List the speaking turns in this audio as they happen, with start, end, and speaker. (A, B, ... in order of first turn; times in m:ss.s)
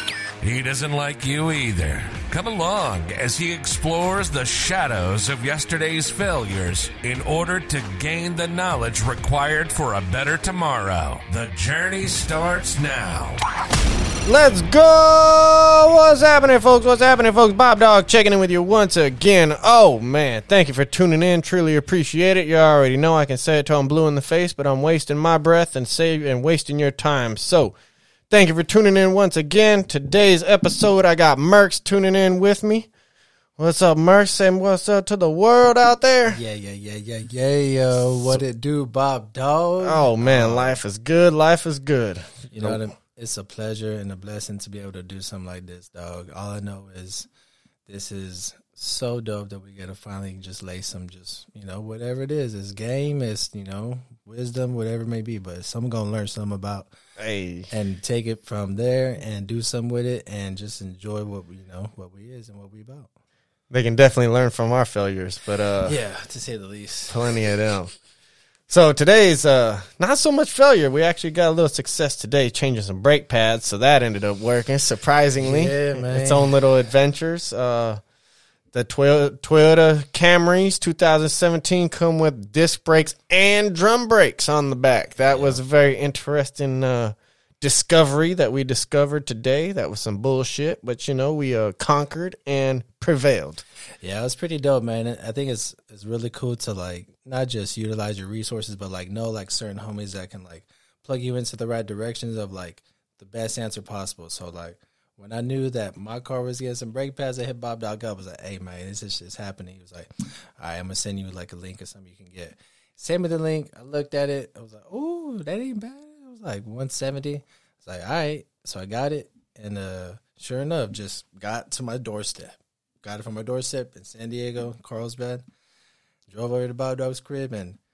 0:00.4-0:13.4 A
0:14.2-0:27.7 B
0:28.3-0:32.9 B
0:33.6-0:36.4 B
0:36.3-0:40.8 C
0:38.0-0:38.4 B
0:39.8-0:42.8 B
0:42.5-0:47.3 C
0:47.9-0:56.9 C
0:57.2-0:57.7 B
0:57.7-1:03.1 C
1:03.7-1:06.0 B
1:05.8-1:07.3 C
1:07.1-1:07.9 B
1:08.7-1:18.0 B
1:15.4-1:16.6 C
1:18.7-1:33.6 B
1:25.3-1:25.6 C
1:34.0-2:05.4 C
2:06.3-2:07.8 C